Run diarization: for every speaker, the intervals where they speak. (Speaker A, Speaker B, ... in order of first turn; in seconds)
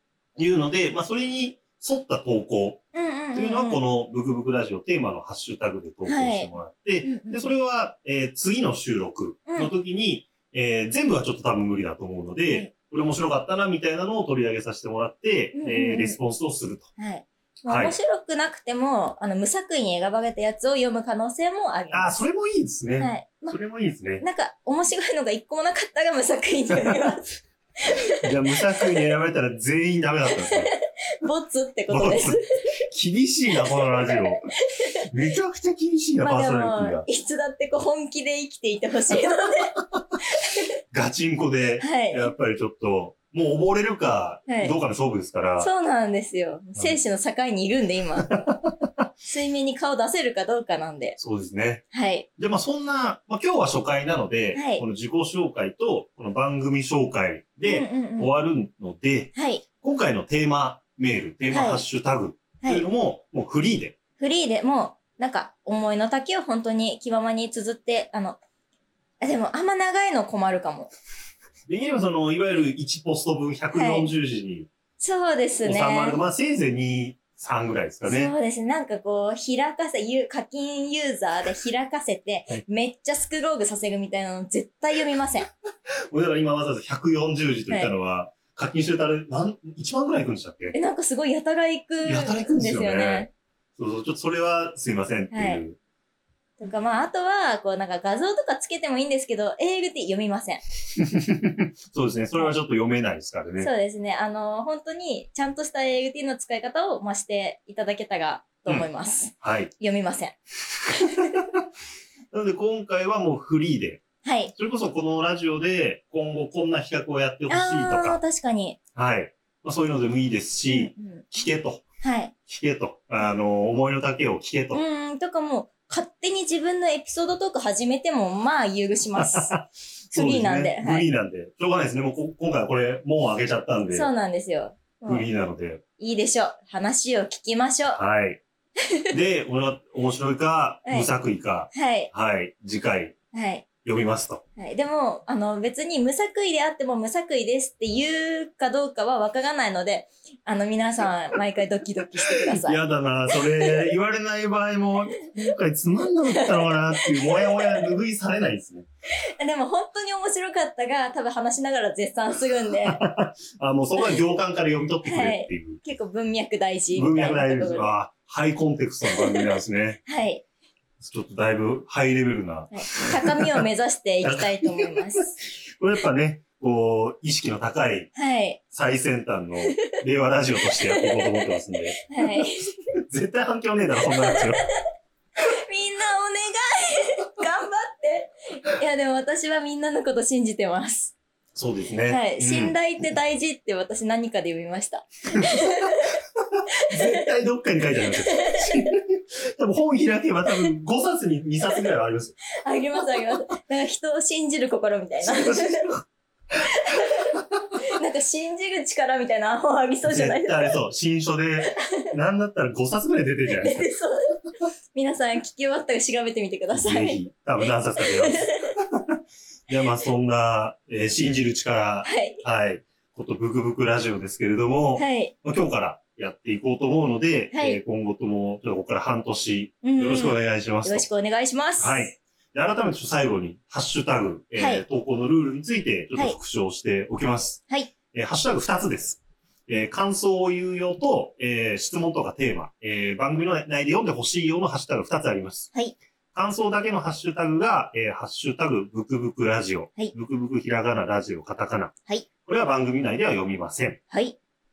Speaker A: 0.4-2.8, 3.3-16.9, 17.7-18.0, 21.9-24.2, 26.7-27.1, 28.2-30.7, 31.9-34.4, 35.1-37.0, 40.9-45.7, 48.3-48.9, 51.2-51.8, 52.4-64.0, 71.7-74.7, 75.6-78.3, 86.1-90.8, 92.0-95.8, 101.0-103.7, 109.4-109.7, 112.3-114.0, 114.5-118.2, 119.0-121.8, 122.5-124.8, 129.2-134.1, 135.1-135.8, 137.9-138.4, 139.1-143.2, 143.8-144.4, 152.3-158.9, 162.9-165.8, 166.9-170.0, 171.0-173.6, 174.2-178.1, 178.7-182.4, 183.1-184.6, 191.6-192.8, 195.4-196.1, 196.9-202.4, 205.2-206.0, 210.1-213.9, 216.7-231.1, 231.8-237.6, 238.1-245.7, 246.3-251.9, 252.5-254.0
Speaker B: 2.9-3.8, 6.1-7.5, 9.5-9.7, 15.5-16.2, 17.0-22.3, 23.0-23.6, 24.2-27.4, 27.9-28.2, 30.4-30.7, 31.2-32.5, 33.6-35.0, 36.2-39.8, 40.3-40.6, 41.8-42.3, 44.5-44.8, 45.6-48.3, 49.2-51.2, 51.9-52.3, 54.5-54.8, 57.6-58.3, 59.4-59.6, 61.5-61.8, 62.6-62.9, 64.2-68.4, 69.2-70.9, 73.7-74.1, 75.0-76.2, 78.1-85.5, 90.7-93.3, 95.3-95.6, 96.6-100.6, 103.6-110.4, 110.9-111.3, 114.2-114.5, 117.5-118.8, 120.7-121.2, 122.0-122.3, 124.7-129.6, 130.1-131.1, 133.9-135.3, 136.0-138.0, 141.7-142.1, 143.3-143.7, 144.6-153.8, 156.3-157.9, 159.4-163.0, 165.1-167.9, 169.1-170.4, 172.7-175.3, 178.2-178.6, 180.7-182.8, 184.2-184.7, 185.4-191.1, 192.1-196.2, 196.9-197.2, 198.1-198.9, 202.6-205.9, 206.8-207.3, 207.9-210.8, 213.5-214.4, 214.9-217.3, 218.0-218.8, 222.1-222.4, 225.0-225.3, 227.5-227.8, 229.8-232.1, 234.6-234.8, 254.1-254.4